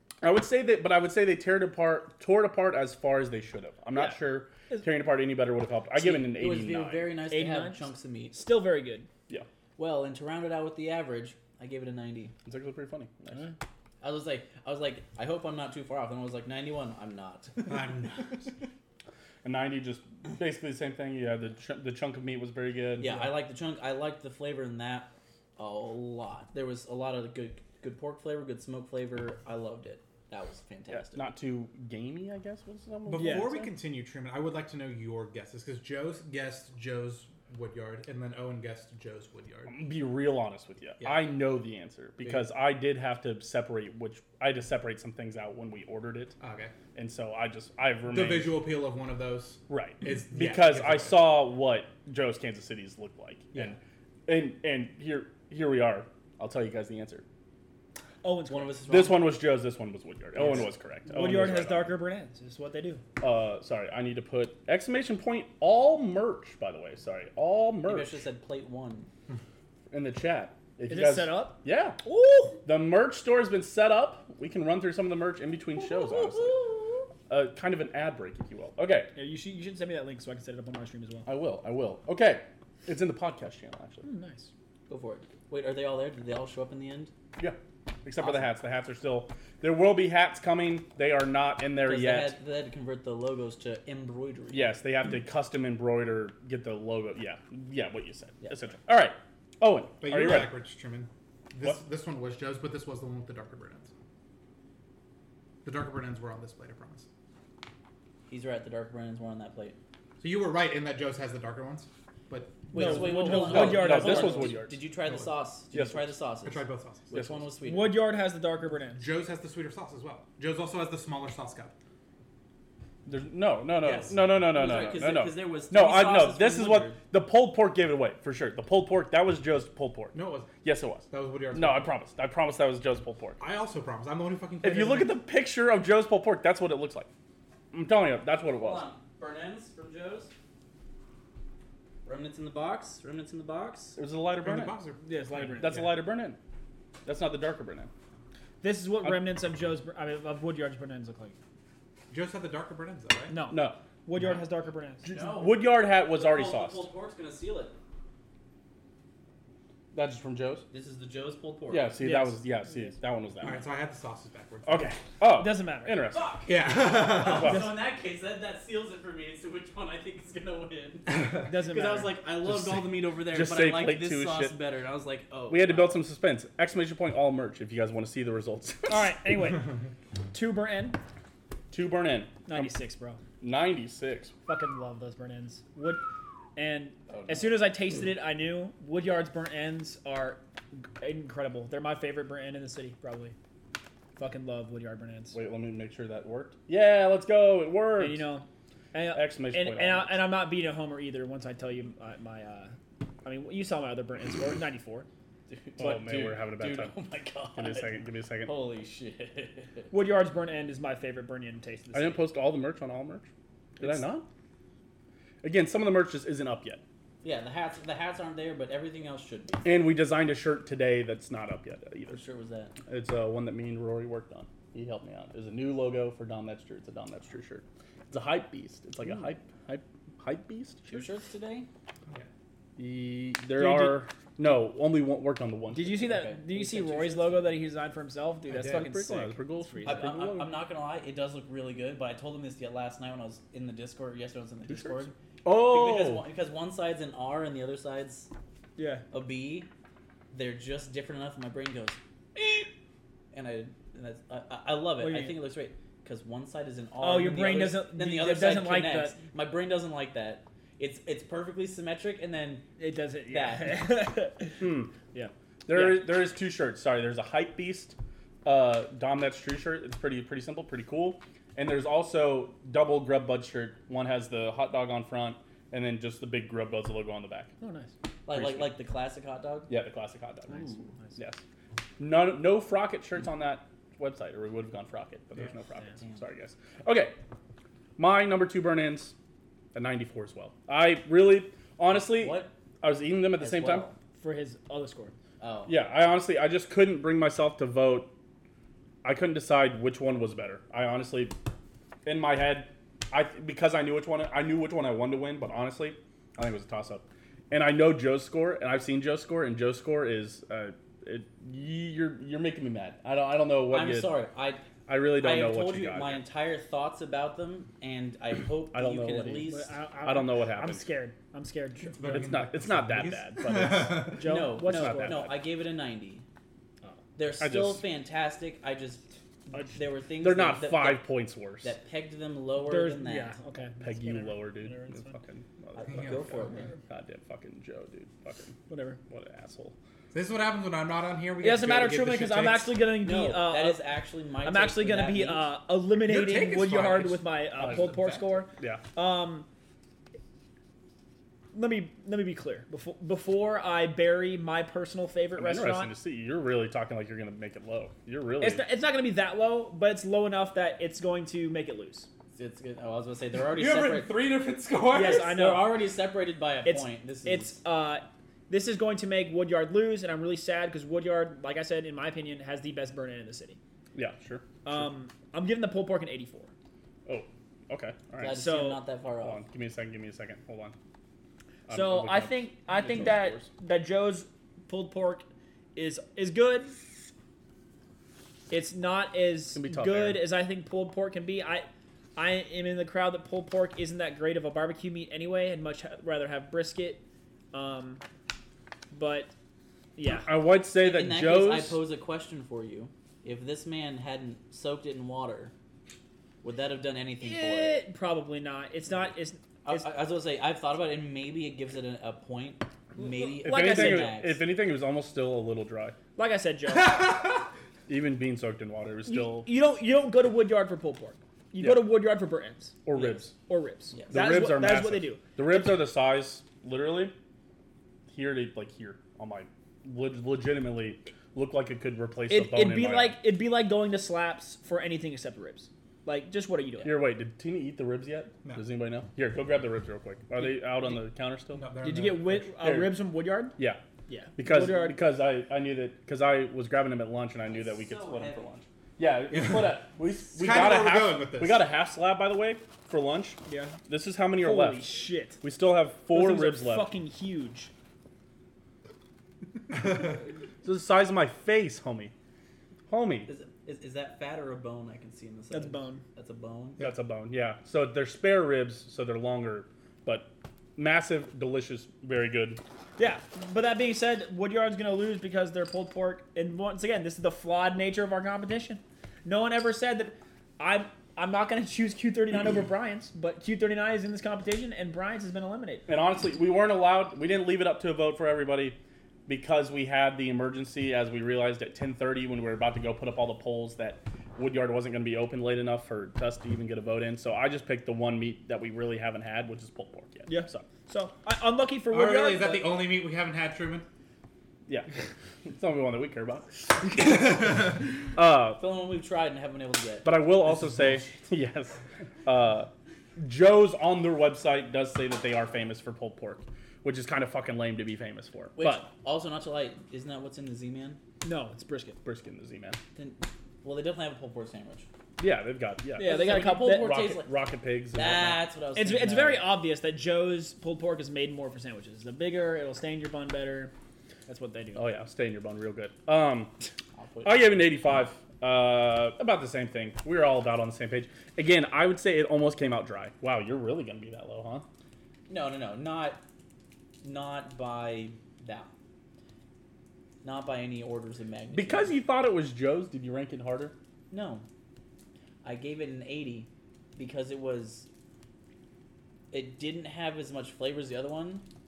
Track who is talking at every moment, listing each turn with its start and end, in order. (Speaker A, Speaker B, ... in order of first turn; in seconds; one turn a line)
Speaker A: 0.2-7.1
Speaker B: 6.0-8.4
Speaker C: 7.3-9.1
Speaker B: 9.8-12.3
Speaker A: 12.4-13.4
Speaker B: 14.0-18.1
Speaker D: 17.7-18.2
Speaker A: 19.4-23.3
Speaker B: 23.0-31.3
Speaker A: 30.9-33.6
Speaker D: 33.1-39.8
Speaker C: 33.1-33.7
Speaker A: 39.7-46.4
Speaker D: 46.4-46.7
Speaker A: 47.0-48.6
Speaker D: 48.1-51.3
Speaker A: 49.7-57.2
Speaker C: 58.2-58.8
Speaker B: 58.5-59.3
Speaker A: 58.9-62.0
Speaker C: 60.5-63.0
Speaker A: 63.2-68.2
Speaker B: 67.8-69.1
Speaker A: 69.9-72.0
Speaker C: 70.9-72.6
Speaker A: 72.6-76.7
Speaker B: 76.2-76.7
Speaker A: 77.3-79.1
Speaker C: 79.1-81.3
Speaker A: 81.3-84.0
Speaker C: 84.0-84.5
Speaker B: 84.9-87.1
Speaker A: 87.4-92.4
Speaker B: 88.2-88.5
Speaker B: 91.8-94.7
Speaker A: 94.5-100.6
Speaker D: 100.0-103.9
Speaker D: 105.6-107.1
Speaker B: 108.3-109.8
Speaker D: 110.2-113.2
Speaker B: 112.7-118.0
Speaker C: 112.7-114.6
Speaker A: 113.3-114.8
Speaker D: 115.0-115.3
Speaker A: 115.7-116.1
Speaker D: 116.5-117.1
Speaker A: 117.1-117.5
Speaker C: 117.6-119.0
Speaker D: 118.9-121.7
Speaker A: 123.0-133.4
Speaker B: 123.8-127.0
Speaker D: 130.1-130.5
Speaker D: 131.1-131.9
Speaker D: 133.4-135.2
Speaker A: 134.6-137.1
Speaker A: 137.7-138.8
Speaker B: 138.6-140.3
Speaker B: 142.1-144.0
Speaker A: 143.9-144.8
Speaker D: 144.4-145.9
Speaker C: 145.0-145.9
Speaker A: 145.5-146.4
Speaker A: 147.1-147.9
Speaker C: 148.6-151.4
Speaker D: 152.1-153.4
Speaker C: 153.3-155.1
Speaker A: 153.5-153.8
Speaker A: 155.1-156.9
Speaker B: 155.1-157.8
Speaker A: 159.9-160.7
Speaker B: 160.7-161.9
Speaker A: 161.7-163.6
Speaker C: 162.0-162.9
Speaker D: 163.4-165.0
Speaker A: 164.7-166.4
Speaker C: 165.3-166.0
Speaker B: 166.1-176.0
Speaker D: 166.5-167.6
Speaker A: 167.3-167.7
Speaker D: 171.1-171.4
Speaker C: 171.4-172.2
Speaker A: 172.5-174.6
Speaker A: 175.5-179.1
Speaker C: 178.9-179.8
Speaker C: 180.3-181.0
Speaker A: 181.7-182.7
Speaker C: 182.4-183.2
Speaker A: 183.4-184.3
Speaker C: 184.5-186.0
Speaker C: 186.6-190.4
Speaker C: 191.0-193.3
Speaker C: 194.2-195.4
Speaker A: 195.3-198.3
Speaker C: 198.0-205.1
Speaker A: 199.1-200.3
Speaker B: 205.5-209.9
Speaker A: 205.8-206.9
Speaker A: 207.6-208.5
Speaker C: 209.9-212.2
Speaker A: 211.9-213.3
Speaker C: 213.8-214.1
Speaker A: 213.8-214.3
Speaker A: 215.4-216.8
Speaker B: 217.2-219.7
Speaker A: 219.6-222.2
Speaker B: 222.1-222.7
Speaker A: 222.8-231.1
Speaker B: 230.9-231.7
Speaker A: 232.8-236.2
Speaker C: 233.6-234.0
Speaker C: 235.7-240.1
Speaker B: 236.0-237.6
Speaker A: 238.5-240.5
Speaker B: 239.8-248.3
Speaker A: 244.7-246.2
Speaker C: 248.8-249.1
Speaker B: 249.1-249.7
Speaker B: 250.3-252.7
Speaker B: 253.3-262.7
Speaker C: 255.0-255.4
Speaker C: 257.0-259.2
Speaker C: 262.8-266.1
Speaker B: 263.3-263.9
Speaker A: 264.6-264.9
Speaker A: 265.7-277.5
Speaker C: 277.6-277.9
Speaker B: 278.3-279.7
Speaker A: 278.3-278.7
Speaker A: 279.7-281.4
Speaker C: 280.6-281.1
Speaker A: 282.0-287.2
Speaker A: 288.0-289.1
Speaker A: 289.7-293.9
Speaker B: 291.9-292.5
Speaker B: 293.4-294.0
Speaker C: 294.1-295.1
Speaker B: 295.4-295.7
Speaker A: 295.7-298.1
Speaker A: 299.0-301.4
Speaker A: 302.1-314.2
Speaker B: 313.7-319.7
Speaker A: 314.9-316.2
Speaker A: 318.7-319.5
Speaker C: 319.4-322.3
Speaker A: 320.0-320.9
Speaker D: 321.9-324.3
Speaker A: 322.0-325.4
Speaker C: 324.1-325.3
Speaker B: 324.2-326.2
Speaker B: 327.1-331.1
Speaker A: 327.4-327.8
Speaker C: 329.5-329.8
Speaker A: 330.2-331.7
Speaker B: 331.6-333.3
Speaker C: 332.6-335.2
Speaker A: 333.8-339.8
Speaker B: 335.8-336.7
Speaker D: 335.9-336.4
Speaker C: 338.7-339.0
Speaker D: 340.1-342.8
Speaker C: 341.4-343.9
Speaker B: 343.0-345.5
Speaker C: 344.4-349.5
Speaker D: 345.9-348.4
Speaker A: 347.6-348.0
Speaker A: 348.5-348.8
Speaker C: 351.5-355.9
Speaker A: 355.4-358.6
Speaker C: 358.4-362.1
Speaker B: 362.4-364.2
Speaker D: 363.4-365.3
Speaker C: 364.9-365.8
Speaker B: 364.9-367.6
Speaker C: 366.6-373.6
Speaker A: 373.9-374.8
Speaker C: 374.6-376.5
Speaker A: 377.1-378.4
Speaker B: 378.2-379.4
Speaker C: 378.3-378.8
Speaker A: 379.2-380.7
Speaker A: 381.7-383.5
Speaker C: 381.7-386.8
Speaker C: 388.5-398.0
Speaker A: 389.5-390.2
Speaker C: 398.9-399.3
Speaker C: 399.9-400.3
Speaker A: 400.2-401.8
Speaker B: 400.8-405.5
Speaker B: 406.4-407.8
Speaker C: 407.2-409.9
Speaker B: 409.6-414.4
Speaker C: 413.0-414.2
Speaker A: 413.4-415.9
Speaker C: 416.2-417.4
Speaker A: 417.9-419.5
Speaker C: 419.1-425.2
Speaker A: 421.6-421.9
Speaker A: 422.9-423.3
Speaker B: 423.9-424.3
Speaker A: 424.1-427.1
Speaker A: 428.1-433.2
Speaker C: 432.3-437.1
Speaker A: 436.8-441.7
Speaker D: 441.5-442.5
Speaker C: 441.8-443.6
Speaker A: 442.6-443.0
Speaker A: 443.6-443.8
Speaker C: 444.1-445.0
Speaker A: 444.4-454.9
Speaker B: 447.4-448.6
Speaker D: 449.3-449.6
Speaker D: 450.3-451.6
Speaker C: 453.5-453.8
Speaker C: 454.4-455.4
Speaker A: 455.4-456.9
Speaker C: 456.1-457.7
Speaker A: 460.6-462.1
Speaker A: 462.9-463.3
Speaker B: 463.3-466.8
Speaker C: 465.5-466.0
Speaker A: 466.8-472.6
Speaker C: 473.0-485.9
Speaker A: 485.9-500.7
Speaker C: 500.3-502.8
Speaker D: 501.9-503.9
Speaker A: 504.7-504.9
Speaker A: 505.4-507.6
Speaker A: 508.1-508.6
Speaker B: 508.6-510.1
Speaker A: 510.0-518.9
Speaker B: 518.5-521.0
Speaker C: 521.2-522.0
Speaker A: 522.0-522.8
Speaker B: 523.0-524.9
Speaker A: 525.2-528.4
Speaker C: 526.0-527.0
Speaker B: 526.0-527.3
Speaker B: 527.9-529.4
Speaker C: 528.7-533.7
Speaker C: 534.3-534.9
Speaker A: 534.8-536.5
Speaker B: 537.0-537.6
Speaker A: 537.2-544.7
Speaker B: 545.3-546.2
Speaker B: 547.0-548.7
Speaker B: 550.2-552.0
Speaker A: 551.5-553.8
Speaker B: 554.1-554.5
Speaker B: 555.4-557.9
Speaker B: 559.3-561.5